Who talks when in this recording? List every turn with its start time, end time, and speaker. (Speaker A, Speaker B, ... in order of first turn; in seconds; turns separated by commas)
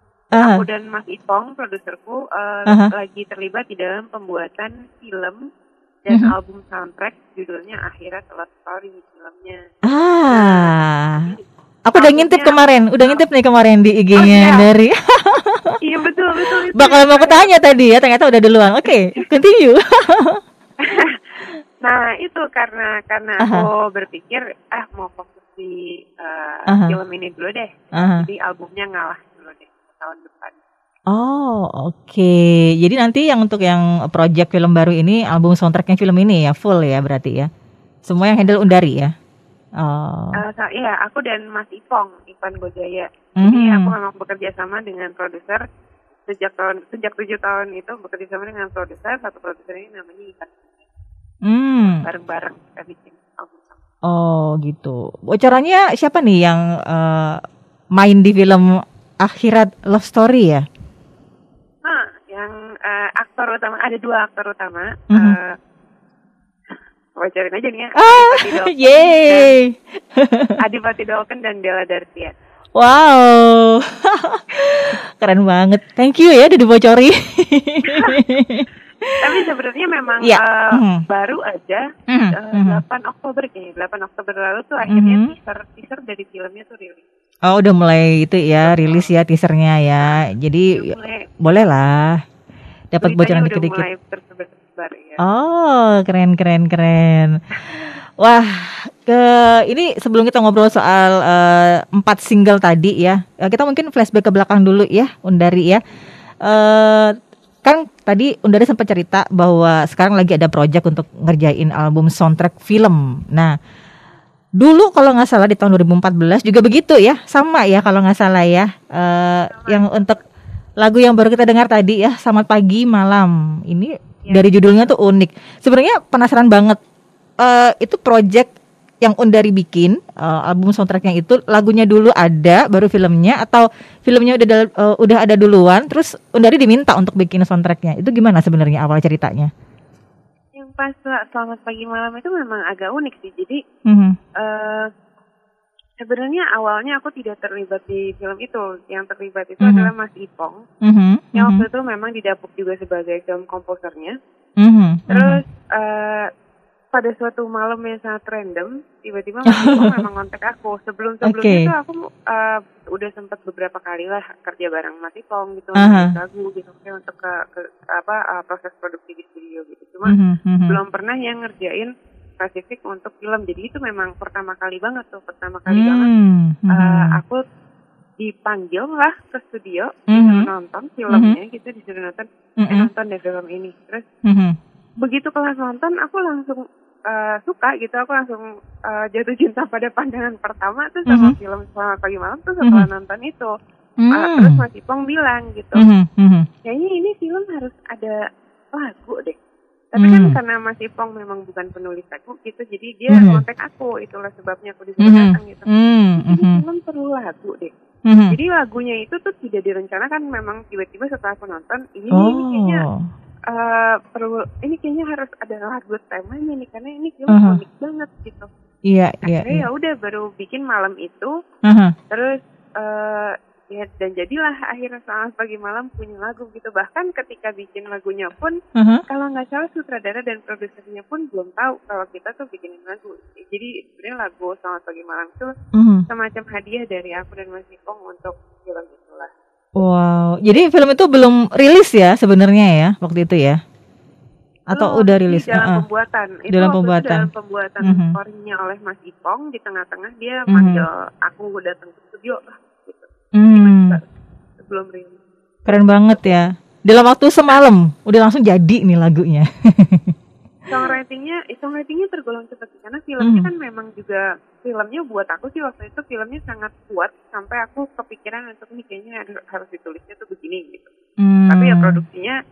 Speaker A: 0.3-0.6, Speaker B: 0.4-5.4, Speaker B: 6.0-9.6, Speaker A: 9.9-11.2, Speaker B: 10.3-13.2, Speaker A: 11.8-15.8, Speaker B: 14.2-14.7, Speaker B: 15.8-17.5, Speaker A: 16.7-20.4, Speaker B: 20.8-21.3, Speaker B: 21.8-30.6, Speaker A: 23.4-23.7, Speaker A: 26.7-27.0, Speaker A: 28.0-28.3, Speaker A: 31.1-37.5, Speaker A: 38.0-39.1, Speaker A: 39.8-40.4, Speaker B: 40.4-45.6, Speaker A: 43.4-43.9, Speaker B: 46.2-50.9, Speaker A: 51.5-52.0, Speaker B: 51.8-53.8, Speaker A: 54.1-57.4, Speaker A: 58.0-60.6, Speaker B: 61.8-65.5, Speaker B: 67.2-69.6, Speaker A: 68.0-70.5, Speaker B: 70.6-72.3, Speaker A: 72.8-79.1, Speaker B: 77.9-78.2, Speaker B: 79.2-81.8, Speaker A: 80.2-81.0, Speaker A: 82.1-82.8, Speaker B: 82.3-87.0, Speaker A: 84.8-85.3, Speaker A: 87.5-90.9, Speaker B: 88.6-89.1, Speaker B: 90.7-91.3, Speaker A: 91.4-92.2, Speaker A: 92.9-93.8, Speaker B: 93.0-95.2, Speaker A: 95.2-97.3, Speaker A: 98.2-105.8, Speaker A: 106.4-113.5, Speaker A: 114.6-120.2, Speaker B: 119.5-120.2, Speaker A: 120.8-126.8, Speaker B: 124.2-124.5, Speaker A: 127.4-128.5, Speaker A: 129.0-139.5, Speaker B: 140.5-143.6, Speaker A: 143.8-144.2, Speaker B: 144.4-144.9, Speaker B: 146.0-150.6, Speaker A: 149.6-149.9, Speaker A: 150.8-151.7, Speaker B: 151.3-154.1, Speaker A: 154.6-155.4, Speaker B: 155.1-156.3, Speaker B: 156.9-170.2, Speaker A: 159.5-160.0, Speaker A: 161.2-161.7, Speaker A: 165.8-166.1, Speaker A: 170.1-170.8, Speaker B: 170.7-176.1, Speaker A: 175.7-177.2, Speaker B: 176.7-177.4, Speaker B: 178.2-184.1, Speaker A: 180.1-180.5, Speaker A: 181.1-181.4, Speaker A: 182.6-182.9, Speaker A: 184.2-184.6, Speaker B: 185.0-193.5, Speaker A: 191.1-191.3, Speaker A: 194.0-194.6, Speaker B: 194.1-195.8, Speaker A: 195.7-196.5, Speaker B: 196.6-198.2, Speaker B: 198.7-199.3, Speaker B: 199.9-207.7, Speaker A: 200.0-200.4, Speaker A: 203.1-203.4, Speaker A: 205.0-206.6, Speaker A: 208.1-208.3, Speaker B: 208.3-212.8, Speaker A: 212.1-212.9, Speaker B: 213.5-218.5, Speaker A: 217.3-217.6, Speaker A: 218.9-219.7, Speaker B: 219.2-221.3, Speaker A: 221.7-221.9, Speaker B: 222.1-228.6, Speaker A: 228.8-229.0, Speaker B: 229.1-235.5, Speaker A: 235.7-236.0, Speaker B: 236.1-239.3, Speaker A: 239.8-243.6, Speaker A: 244.7-245.8, Speaker B: 244.7-254.0, Speaker A: 246.5-247.3, Speaker A: 247.8-248.2, Speaker A: 250.5-250.8, Speaker A: 253.4-254.0, Speaker B: 254.6-256.4, Speaker A: 255.7-260.1, Speaker B: 260.7-270.9, Speaker A: 263.2-263.5, Speaker A: 271.2-272.0, Speaker B: 271.5-272.3